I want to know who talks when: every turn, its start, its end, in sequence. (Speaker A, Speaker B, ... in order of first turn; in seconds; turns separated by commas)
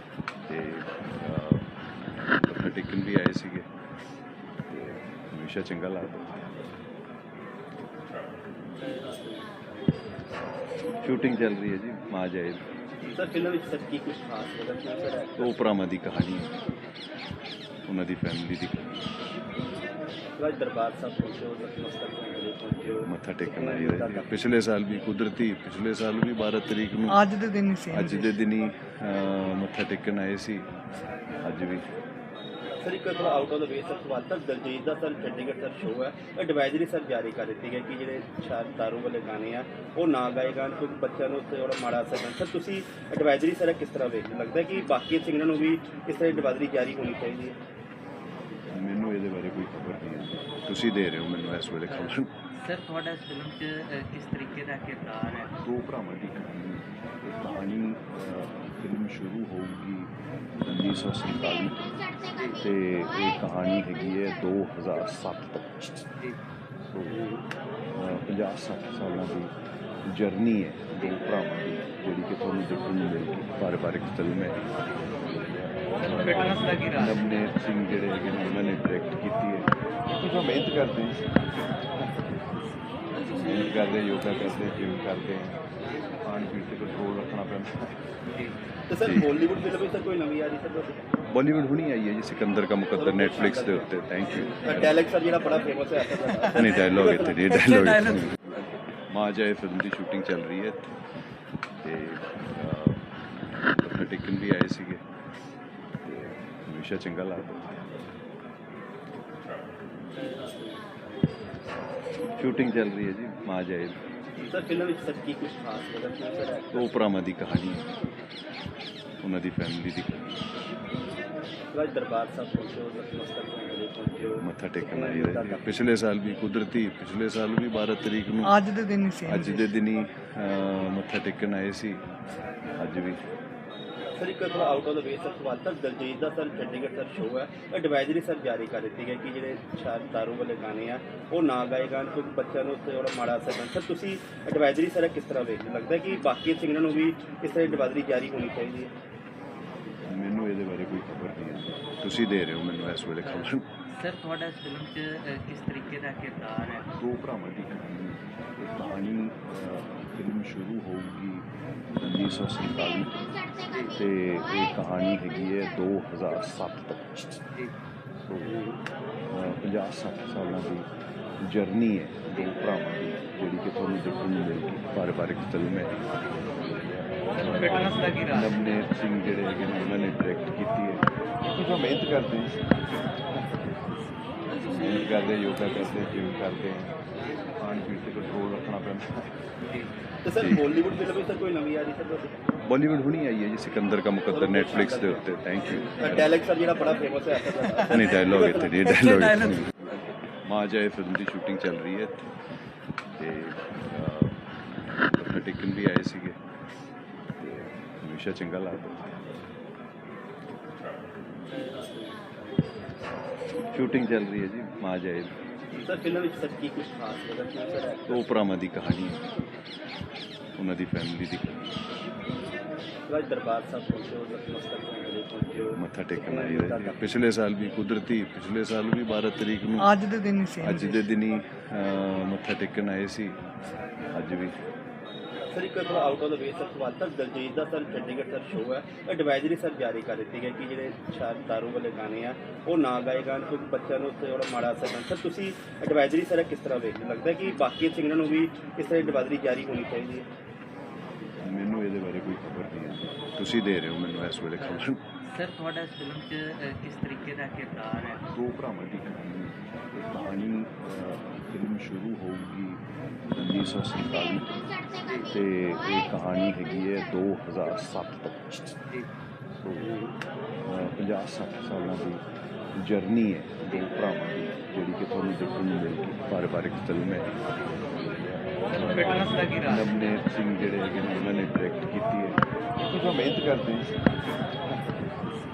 Speaker A: 0.5-3.7, Speaker A: 4.7-6.5, Speaker A: 11.0-12.6, Speaker B: 13.1-15.5, Speaker A: 15.4-16.5, Speaker A: 17.9-18.9, Speaker B: 20.4-24.3, Speaker A: 23.0-27.2, Speaker C: 27.1-28.3, Speaker A: 27.9-30.7, Speaker A: 31.4-31.8, Speaker B: 32.8-47.6, Speaker A: 48.7-52.3, Speaker D: 51.9-55.5, Speaker A: 55.6-61.8, Speaker A: 62.6-66.1, Speaker A: 66.9-67.2, Speaker A: 68.0-69.5, Speaker A: 70.0-74.6, Speaker A: 75.2-81.2, Speaker A: 83.3-85.6, Speaker A: 86.2-87.9, Speaker B: 88.9-91.0, Speaker A: 89.0-89.3, Speaker A: 91.3-94.9, Speaker B: 92.9-93.9, Speaker B: 94.6-97.4, Speaker A: 96.5-100.9, Speaker C: 97.5-98.3, Speaker A: 101.8-105.0, Speaker A: 106.0-107.8, Speaker A: 112.4-114.0, Speaker B: 114.5-116.9, Speaker A: 116.7-117.8, Speaker A: 119.2-120.3, Speaker B: 121.7-125.6, Speaker A: 124.4-128.5, Speaker C: 128.4-129.7, Speaker A: 129.3-132.0, Speaker A: 132.8-133.2, Speaker B: 134.1-148.9, Speaker A: 150.1-153.6, Speaker D: 153.9-156.9, Speaker A: 157.0-161.5, Speaker A: 162.0-163.1, Speaker A: 163.9-167.4, Speaker A: 168.3-168.6, Speaker A: 169.3-170.9, Speaker A: 171.4-175.9, Speaker A: 176.6-182.6, Speaker A: 184.7-186.9, Speaker A: 187.6-189.1, Speaker B: 190.2-192.4, Speaker A: 192.6-196.3, Speaker B: 194.3-195.2, Speaker B: 195.9-198.7, Speaker A: 197.9-199.9, Speaker C: 198.9-199.6, Speaker A: 200.4-202.2, Speaker A: 203.2-206.4, Speaker A: 207.4-209.1, Speaker A: 213.7-215.3, Speaker B: 215.8-218.3, Speaker A: 218.1-219.2, Speaker A: 220.6-221.6, Speaker B: 223.1-227.0, Speaker A: 225.7-229.9, Speaker C: 229.8-231.0, Speaker A: 230.6-233.4, Speaker A: 234.1-234.5, Speaker B: 235.4-250.3, Speaker A: 251.4-255.0, Speaker D: 254.6-258.2, Speaker A: 258.3-262.8, Speaker A: 263.4-264.5, Speaker A: 265.3-268.8, Speaker A: 269.6-270.0, Speaker A: 270.7-272.2, Speaker A: 272.7-277.3, Speaker A: 277.9-284.0